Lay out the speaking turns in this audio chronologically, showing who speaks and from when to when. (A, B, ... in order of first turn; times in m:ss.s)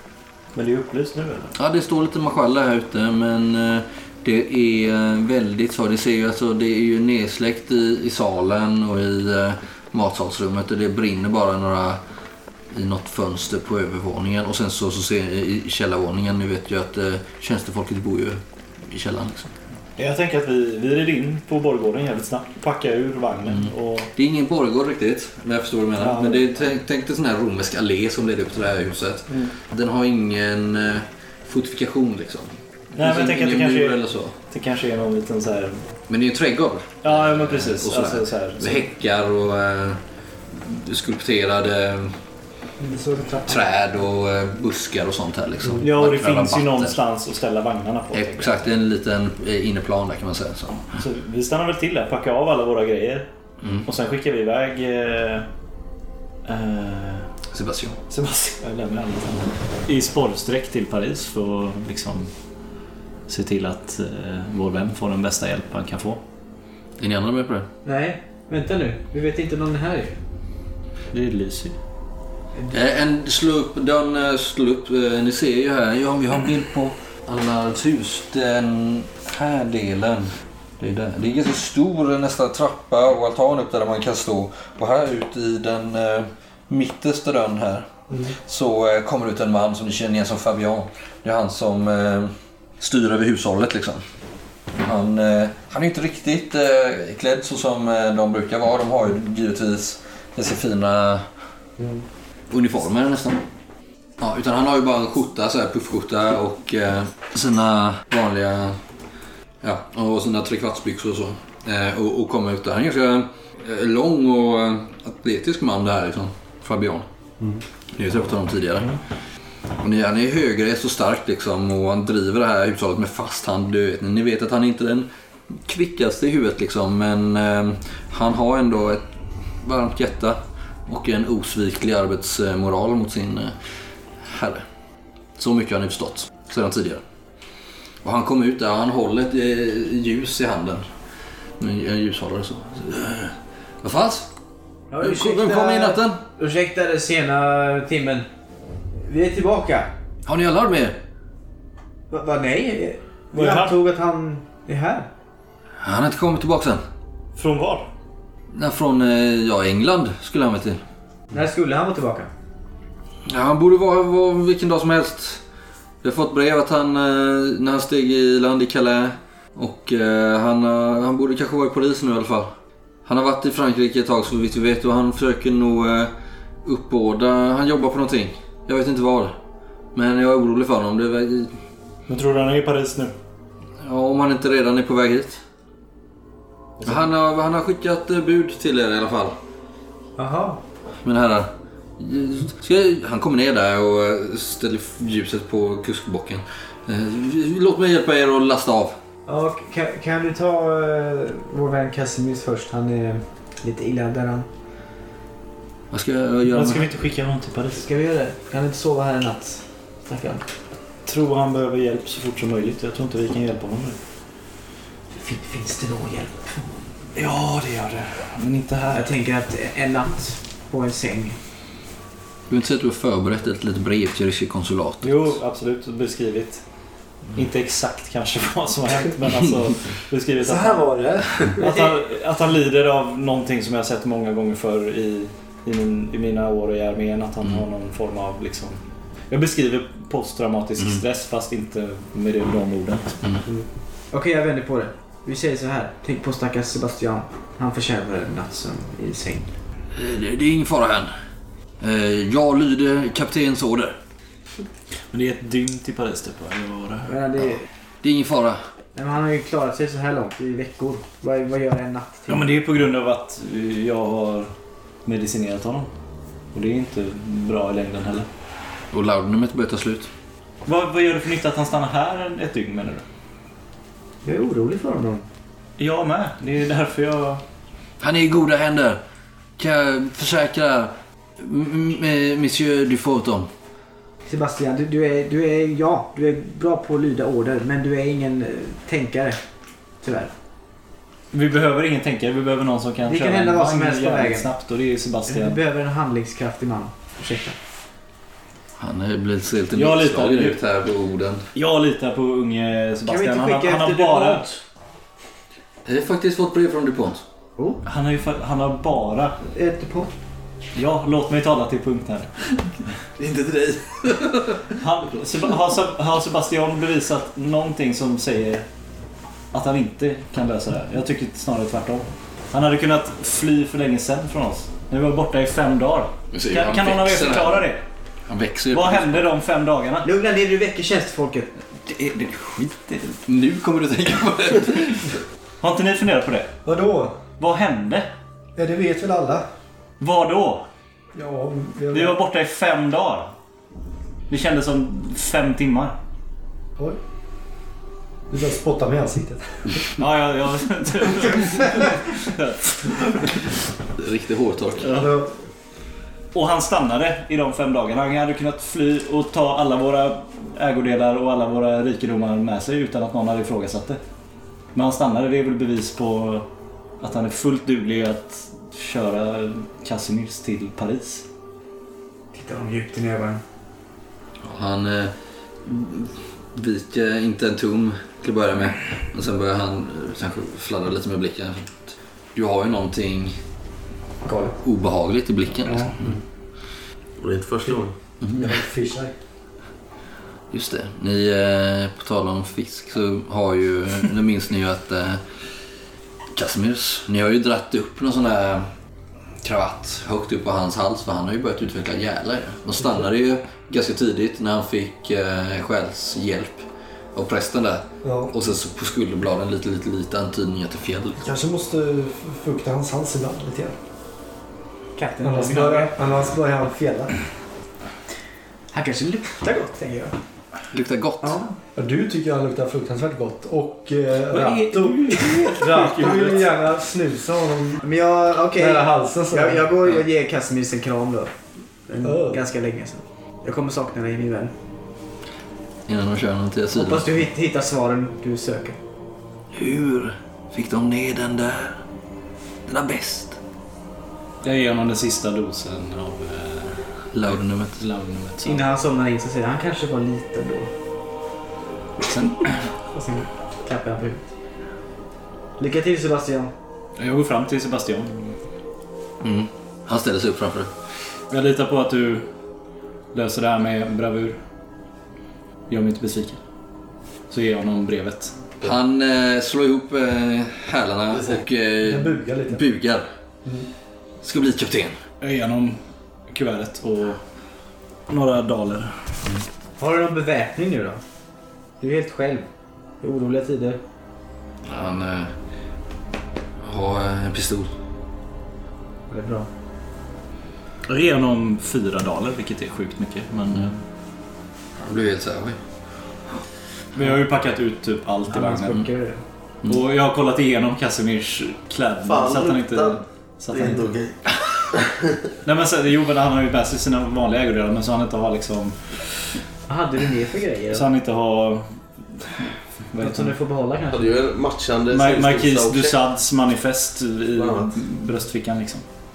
0:00.5-0:01.5 A
0:01.6-0:12.0 B
0:12.7-0:19.5 B
0:20.0-0:24.1 A
0:23.5-0:34.3 B
0:32.9-0:35.9 A
0:36.1-0:42.2 B
0:37.0-0:38.9 A
0:42.8-0:43.6 C
0:43.4-0:47.0 B
0:45.8-0:48.7 A
0:48.1-0:50.9 B
0:50.9-0:53.3 A
0:53.6-0:53.9 B
0:53.8-0:55.5 A
0:56.4-0:57.3 A
0:57.5-0:58.0 B
0:58.1-0:58.5 C
0:58.6-1:06.2 A
1:07.0-1:07.7 B
1:07.8-1:10.2 D
1:11.1-1:11.8 A
1:12.7-1:34.0 B
1:28.1-1:28.4 C
1:34.8-1:41.3 B
1:41.8-1:42.0 C
1:42.5-1:43.4 B
1:44.2-1:48.8 B
1:49.6-1:57.1 B
1:57.9-1:59.0 B
1:59.8-2:13.6 B
2:14.2-2:14.6 B
2:15.4-2:17.0 B
2:18.0-2:20.9 B
2:21.6-2:24.3 B
2:24.9-2:28.3 D
2:25.0-2:26.2 B
2:29.0-2:29.9 D
2:30.2-2:31.0 B
2:32.1-2:35.1 D
2:33.3-2:33.8 A
2:35.8-2:36.8 B
2:37.4-2:37.9 A
2:38.5-2:40.8 B
2:41.3-2:42.3 D
2:43.2-2:45.4 B
2:46.0-2:52.5 B
2:53.0-2:56.1 B
2:56.6-2:59.3 B
2:59.9-3:01.5 B
3:02.1-3:03.1 A
3:03.8-3:05.4 B
3:06.8-3:09.3 B
3:10.2-3:10.6 D
3:11.0-3:19.0 B
3:19.3-3:24.5 D
3:25.9-3:26.8 B
3:26.5-3:27.9 A
3:27.8-3:30.5 D
3:31.0-3:34.0 A
3:35.1-3:36.8 D
3:37.1-3:39.1 A
3:38.9-3:41.4 D
3:42.5-3:45.4 B
3:45.0-4:03.2 A
3:50.4-3:51.6 C
3:51.6-3:52.0 D
4:04.1-4:09.5 D
4:09.9-4:11.1 B
4:11.8-4:14.0 B
4:15.1-4:17.1 A
4:17.0-4:17.7 D
4:18.0-4:18.6 B
4:18.9-4:22.5 D
4:22.3-4:24.5 A
4:25.0-4:25.9 A
4:26.5-4:28.3 A
4:28.9-4:30.1 B
4:30.6-4:33.0 A
4:34.2-4:35.2 D
4:35.8-4:37.4 A
4:38.0-4:39.0 B
4:39.6-4:43.5 B
4:44.3-4:50.3 D
4:51.3-4:55.6 A
4:53.1-4:54.5 D
4:55.3-4:57.6 D
4:58.8-5:01.4 B
4:59.7-5:00.6 A
5:01.5-5:04.5 A
5:03.0-5:04.6 D
5:05.8-5:07.2 B
5:07.8-5:09.4 A
5:09.5-5:10.1 D
5:10.7-5:12.9 A
5:13.2-5:14.3 B
5:14.7-5:18.6 A
5:19.5-5:27.8 A
5:26.3-5:27.6 B
5:28.3-5:29.3 B
5:28.7-5:30.1 A
5:30.0-5:31.5 D
5:31.8-5:35.2 B
5:35.6-5:36.5 A
5:36.6-5:37.2 C
5:37.4-5:38.1 A
5:38.6-5:39.5 C
5:40.0-5:40.7 A
5:41.1-5:42.2 C
5:41.9-5:43.3 A
5:44.3-5:46.0 A
5:48.3-5:49.9 C
5:50.0-5:53.5 A
5:54.0-5:55.1 B
5:54.8-5:55.2 A
5:55.0-5:55.3 C
5:56.3-6:04.0 A
6:04.7-6:06.5 A
6:07.0-6:11.2 A
6:12.3-6:13.4 D
6:14.4-6:23.4 B
6:24.2-6:24.6 D
6:24.6-6:26.2 B
6:25.7-6:26.2 C
6:27.2-6:28.0 E
6:28.2-6:28.6 B
6:28.4-6:29.1 C
6:30.5-6:35.5 B
6:36.3-6:38.7 B
6:39.4-6:46.6 B
6:47.1-6:51.3 B
6:48.0-6:48.3 C
6:51.2-6:53.8 C
6:55.0-6:56.0 D
6:55.2-6:57.1 C
6:58.7-7:00.2 D
7:00.7-7:01.4 B
7:01.2-7:01.5 D
7:01.8-7:07.8 C
7:04.3-7:06.4 D
7:04.4-7:06.4 A
7:07.8-7:14.5 D
7:08.5-7:09.6 C
7:12.0-7:12.4 C
7:15.9-7:17.2 B
7:16.7-7:18.8 D
7:19.5-7:21.8 B
7:22.7-7:23.4 B
7:24.4-7:28.7 A
7:27.1-7:27.8 B
7:28.4-7:30.7 D
7:32.1-7:32.7 A
7:32.9-7:34.2 D
7:35.6-7:36.5 D
7:37.0-7:38.4 A
7:39.2-7:40.7 B
7:41.3-7:42.3 A
7:43.1-7:44.4 A
7:45.7-7:46.4 A
7:47.3-7:48.7 A
7:48.6-7:53.0 B
7:51.8-7:52.6 C
7:54.2-7:55.0 B
7:55.2-7:57.2 A
7:58.1-7:59.2 A
7:59.8-8:01.0 D
8:01.8-8:02.5 D
8:03.0-8:03.8 D
8:04.6-8:05.3 B
8:06.6-8:07.7 B
8:09.1-8:09.5 D
8:10.9-8:13.8 A
8:14.8-8:15.6 B
8:16.9-8:18.9 A
8:18.3-8:19.2 D
8:19.6-8:23.8 A
8:22.0-8:24.2 E
8:25.4-8:29.3 A
8:29.7-8:30.9 D
8:30.7-8:33.4 A
8:33.0-8:34.2 D
8:33.9-8:36.0 E
8:34.9-8:38.8 A
8:37.3-8:37.7 E